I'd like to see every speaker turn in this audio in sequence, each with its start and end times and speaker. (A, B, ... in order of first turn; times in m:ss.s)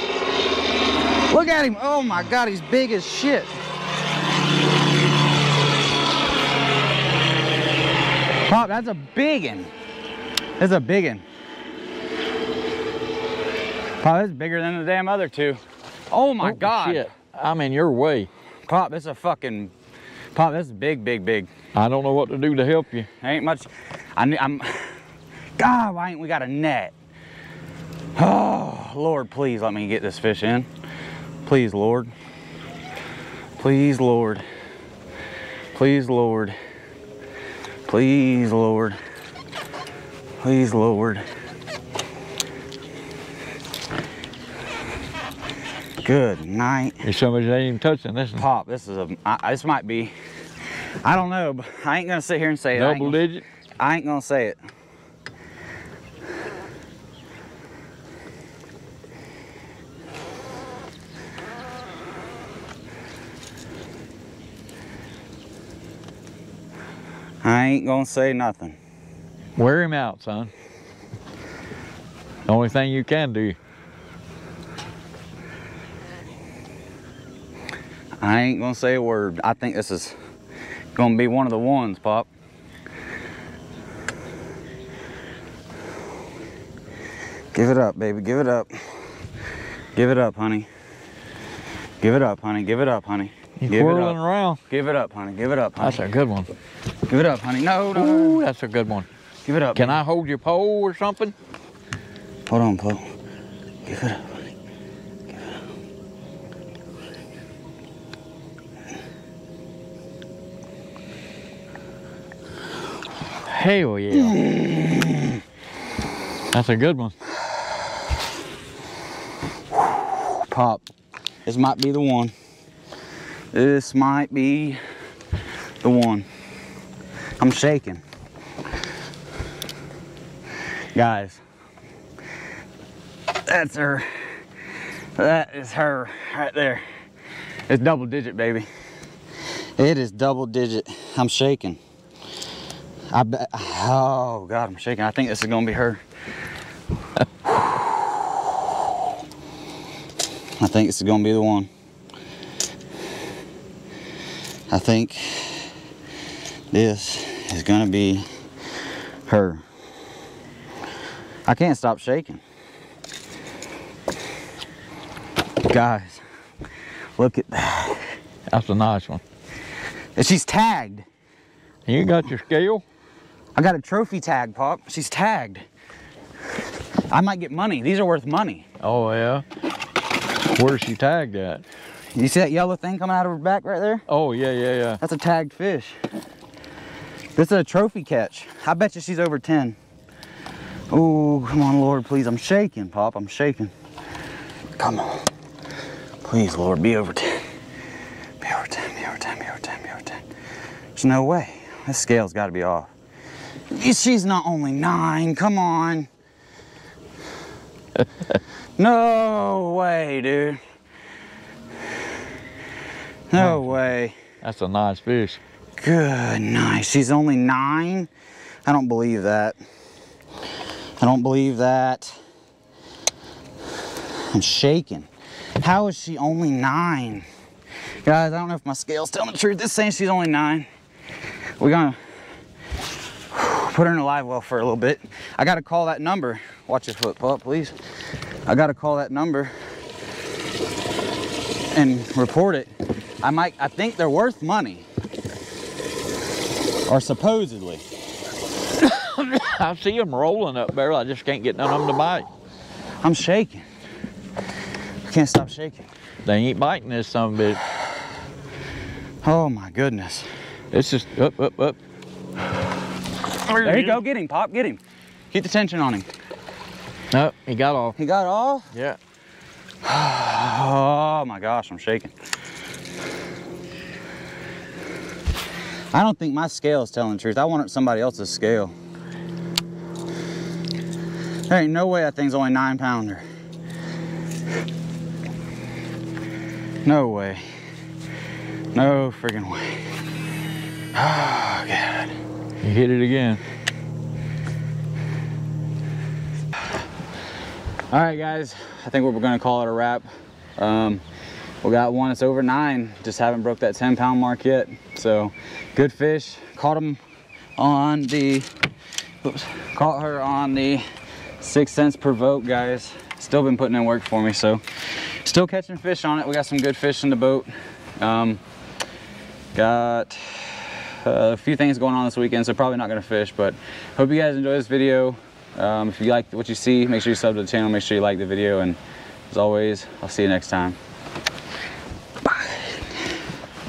0:01.3-0:03.5 A
0:08.5-0:09.7 A
0:10.6-0:11.2 A
0:14.0-0:15.6 A
0:16.1-0:17.1 A
0:16.4-0:18.3 B
0:18.7-0:19.7 A
0:20.3-0:21.5 A
0:21.7-0:23.1 B
0:23.2-0:24.9 A
0:25.6-0:26.9 A
0:28.2-0:30.7 A
0:31.4-0:32.1 A
0:33.6-0:34.4 A
0:35.7-0:36.6 A
0:37.9-0:39.0 A
0:40.4-0:41.2 A
0:46.0-0:47.0 A
0:47.0-0:48.4 B
0:48.4-0:50.1 A
0:51.0-0:53.2 A
0:52.8-0:53.4 B
0:53.8-0:54.6 A
1:07.4-1:08.8 A
1:09.6-1:10.5 B
1:12.5-1:13.6 B
1:18.2-1:20.1 A
1:21.0-1:22.3 A
1:27.5-1:28.7 A
1:30.0-1:30.7 A
1:32.0-1:36.0 A
1:33.6-1:34.6 B
1:35.8-1:36.5 B
1:37.1-1:38.4 A
1:38.0-1:39.1 B
1:39.4-1:40.0 A
1:39.8-1:41.3 B
1:42.5-1:43.1 A
1:43.8-1:44.3 A
1:53.5-1:54.4 B
1:54.1-1:55.3 A
1:56.5-1:57.1 B
2:00.5-2:00.9 A
2:01.4-2:02.3 A
2:03.5-2:04.8 A
2:05.8-2:06.2 A
2:07.4-2:08.0 A
2:11.0-2:11.4 A
2:13.5-2:14.3 A
2:15.2-2:16.8 A
2:17.7-2:18.6 A
2:19.8-2:21.8 A
2:23.1-2:26.0 A
2:30.6-2:31.7 A
2:34.7-2:35.7 A
2:36.7-2:38.2 A
2:39.3-2:39.6 A
2:41.5-2:42.4 A
2:45.6-2:46.2 A
2:47.2-2:48.1 A
2:48.5-2:49.2 B
2:50.2-2:51.0 A
2:51.9-2:52.8 B
2:53.5-2:55.6 A
2:57.1-2:58.6 A
2:58.8-2:59.4 B
3:00.5-3:01.6 B
3:02.1-3:04.0 A
3:04.1-3:05.0 B
3:05.0-3:06.0 A
3:07.4-3:09.8 A
3:10.9-3:13.7 A
3:14.8-3:15.3 A
3:16.2-3:17.4 A
3:18.4-3:20.2 A
3:21.0-3:22.9 A
3:23.7-3:26.1 A
3:28.8-3:30.6 A
3:33.3-3:34.1 A
3:33.4-3:33.7 B
3:34.4-3:35.4 B
3:35.8-3:38.1 A
3:38.6-3:39.6 A
3:41.0-3:42.2 A
3:44.3-3:45.1 A
3:45.6-3:47.2 A
3:48.0-3:50.7 A
3:51.6-3:52.0 A
3:53.3-3:57.8 A
3:58.5-3:59.5 A
4:01.7-4:02.7 A
4:03.2-4:04.9 A
4:06.9-4:07.8 A
4:08.8-4:12.2 B
4:13.0-4:13.6 A
4:15.1-4:15.9 A
4:16.2-4:17.6 B
4:19.2-4:20.3 A
4:20.7-4:21.8 B
4:23.5-4:24.0 B
4:23.6-4:24.8 A
4:25.3-4:26.1 A
4:27.1-4:28.0 B
4:28.0-4:28.7 A
4:28.7-4:29.0 B
4:29.8-4:32.1 A
4:35.9-4:38.7 A
4:41.5-4:43.2 A
4:46.8-4:47.4 A
4:48.7-4:49.9 A
4:51.0-4:52.1 A
4:52.6-4:53.4 B
4:57.9-5:01.0 A
5:01.6-5:07.0 A
5:07.6-5:08.5 A
5:09.2-5:10.8 A
5:11.4-5:17.5 A
5:18.0-5:18.4 A
5:19.5-5:28.8 A
5:29.3-5:30.8 A